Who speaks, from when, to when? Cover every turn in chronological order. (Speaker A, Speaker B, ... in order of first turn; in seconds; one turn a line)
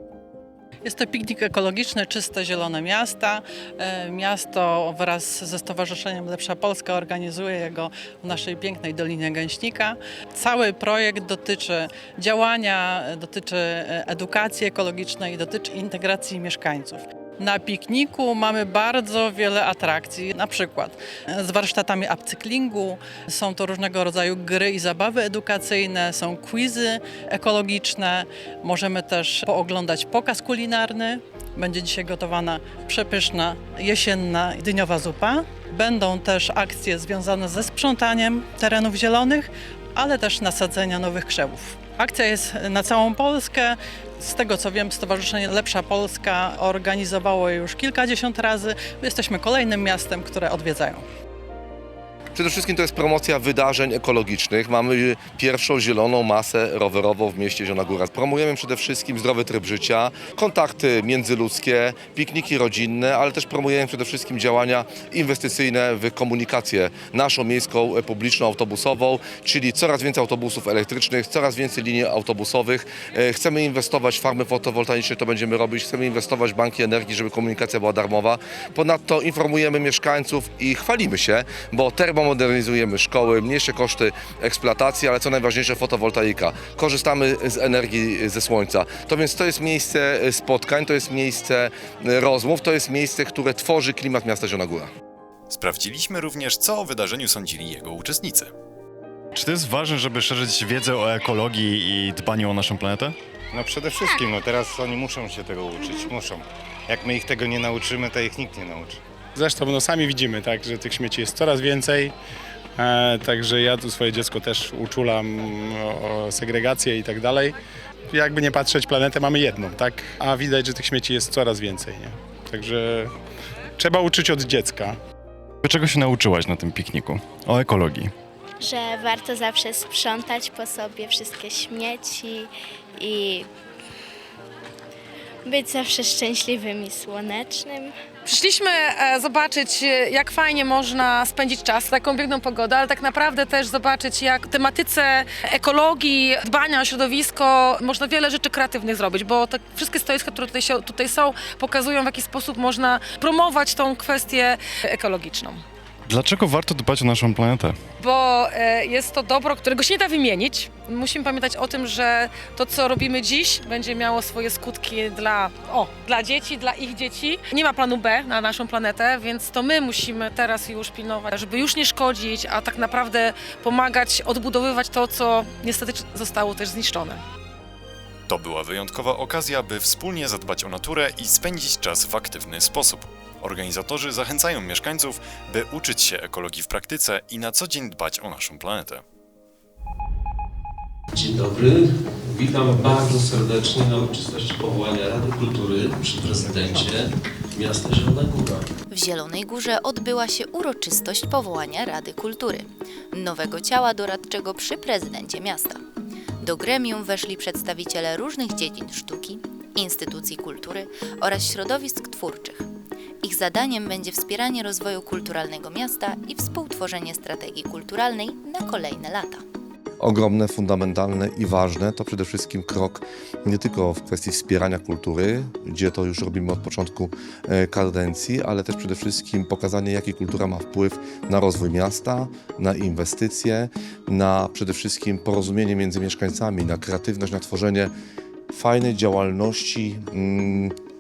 Speaker A: 0.8-51.0
Speaker B: 52.3-94.9
Speaker C: 95.5-98.5
Speaker D: 99.3-103.2
Speaker E: 103.5-109.0
Speaker F: 109.4-112.1
Speaker F: 112.8-117.6
Speaker F: 118.1-123.1
Speaker F: 123.8-125.0
Speaker D: 125.6-128.1
Speaker G: 128.6-133.5
Speaker G: 135.5-138.0
Speaker H: 138.2-155.6
Speaker D: 156.1-157.8
Speaker H: 158.0-177.2
Speaker C: 178.3-189.0
Speaker I: 191.1-198.7
Speaker J: 198.9-205.8
Speaker J: 206.4-212.7
Speaker J: 213.2-219.4
Speaker B: 220.0-237.9
Speaker B: 238.5-240.7